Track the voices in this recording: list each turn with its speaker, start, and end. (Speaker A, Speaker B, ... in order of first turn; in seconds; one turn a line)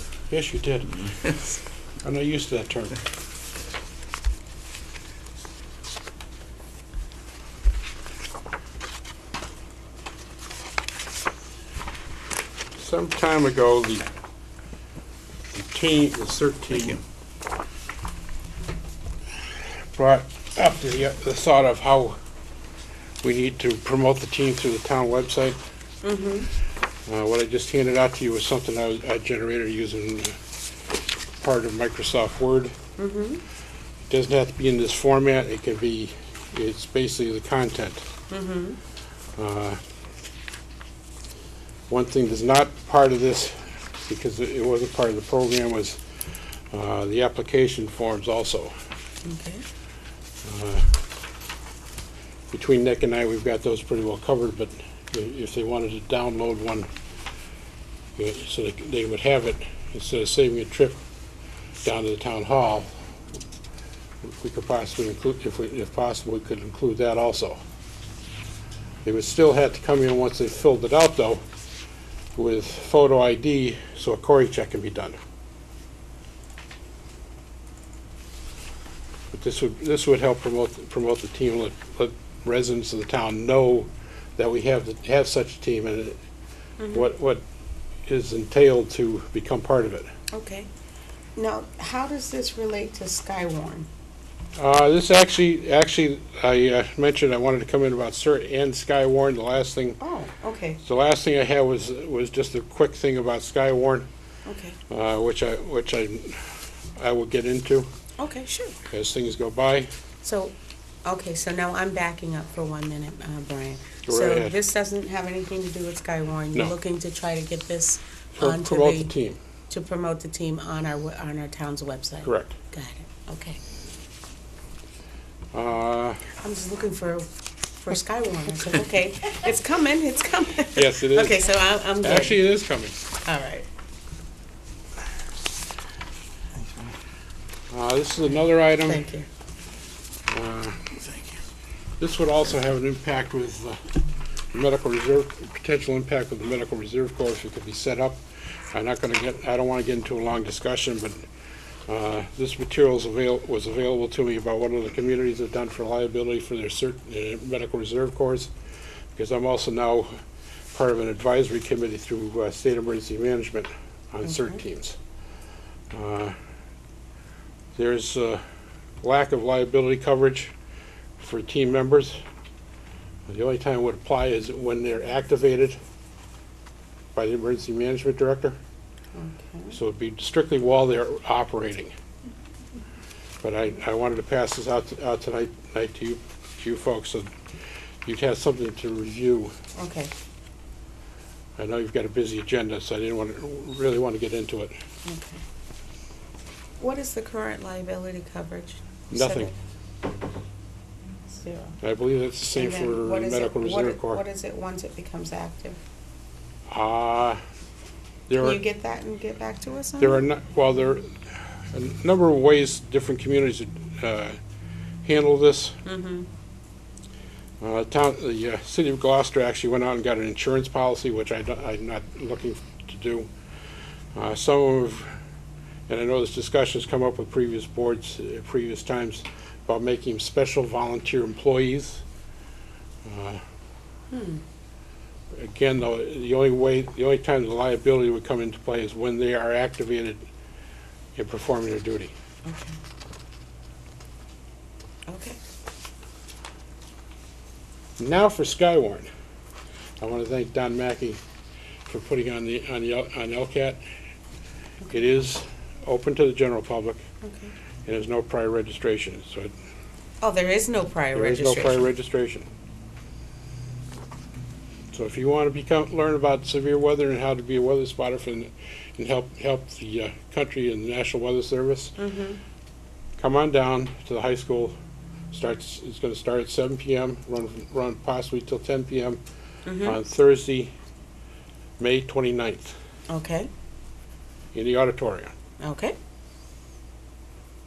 Speaker A: 0.3-1.3
Speaker A: 2.0-3.0
Speaker A: 12.8-14.1
Speaker A: 15.5-17.0
Speaker A: 19.9-22.2
Speaker A: 23.2-25.6
Speaker B: 26.0-26.5
Speaker A: 27.1-30.4
Speaker A: 31.4-32.8
Speaker B: 33.0-33.4
Speaker A: 34.1-38.0
Speaker B: 38.3-38.8
Speaker A: 39.4-39.8
Speaker A: 41.9-46.0
Speaker A: 46.7-48.7
Speaker B: 49.2-49.6
Speaker A: 50.4-51.0
Speaker A: 52.5-56.9
Speaker A: 58.2-61.0
Speaker A: 61.8-63.0
Speaker A: 64.2-67.6
Speaker A: 69.0-71.4
Speaker A: 72.4-75.2
Speaker A: 79.3-86.2
Speaker B: 86.8-87.1
Speaker A: 86.9-87.4
Speaker A: 88.1-90.1
Speaker B: 90.3-90.7
Speaker B: 91.4-93.9
Speaker A: 94.6-100.0
Speaker B: 100.0-100.8
Speaker A: 100.8-104.1
Speaker B: 104.5-104.8
Speaker A: 104.9-106.5
Speaker A: 107.0-107.9
Speaker B: 108.2-108.8
Speaker A: 108.9-109.9
Speaker B: 110.2-119.1
Speaker A: 114.1-114.6
Speaker A: 118.3-119.4
Speaker B: 119.7-123.6
Speaker A: 122.2-122.6
Speaker A: 125.5-126.2
Speaker B: 126.4-127.3
Speaker B: 127.8-132.4
Speaker A: 130.7-131.4
Speaker A: 132.0-133.0
Speaker B: 133.2-133.7
Speaker A: 137.7-139.0
Speaker B: 138.8-139.3
Speaker A: 140.3-140.9
Speaker A: 142.0-143.9
Speaker A: 144.5-148.2
Speaker A: 148.7-151.3
Speaker A: 151.9-158.5
Speaker A: 159.2-160.1
Speaker A: 160.7-165.0
Speaker B: 164.2-164.6
Speaker A: 165.9-166.4
Speaker A: 167.8-168.4
Speaker A: 169.0-170.5
Speaker A: 171.2-172.2
Speaker A: 173.3-175.8
Speaker A: 177.2-178.6
Speaker B: 179.1-179.8
Speaker A: 179.7-181.9
Speaker A: 183.4-187.3
Speaker A: 188.1-189.6
Speaker B: 189.8-190.1
Speaker A: 191.6-194.7
Speaker B: 195.1-195.4
Speaker B: 196.8-199.6
Speaker A: 199.1-199.5
Speaker B: 201.3-201.8
Speaker A: 201.8-204.2
Speaker B: 202.6-205.8
Speaker A: 206.7-207.4
Speaker A: 208.3-208.6
Speaker B: 208.4-210.2
Speaker A: 210.0-214.4
Speaker A: 215.0-215.8
Speaker B: 215.8-216.3
Speaker A: 217.6-223.3
Speaker A: 224.2-225.2
Speaker A: 225.9-232.0
Speaker A: 233.0-233.4
Speaker B: 234.1-234.4
Speaker A: 235.3-240.2
Speaker A: 241.2-242.1
Speaker B: 242.4-242.8
Speaker B: 245.1-245.4
Speaker A: 248.0-249.1
Speaker A: 250.0-251.2
Speaker A: 251.9-253.8
Speaker A: 254.9-257.0
Speaker B: 257.2-257.5
Speaker A: 257.9-259.5
Speaker B: 260.2-261.9
Speaker A: 261.1-262.5
Speaker A: 264.9-272.0
Speaker B: 272.0-272.4
Speaker A: 273.2-274.8
Speaker A: 275.3-279.2
Speaker B: 279.6-280.0
Speaker A: 279.8-280.7
Speaker A: 281.8-282.8
Speaker B: 283.1-283.5
Speaker A: 284.5-285.3
Speaker B: 285.6-286.0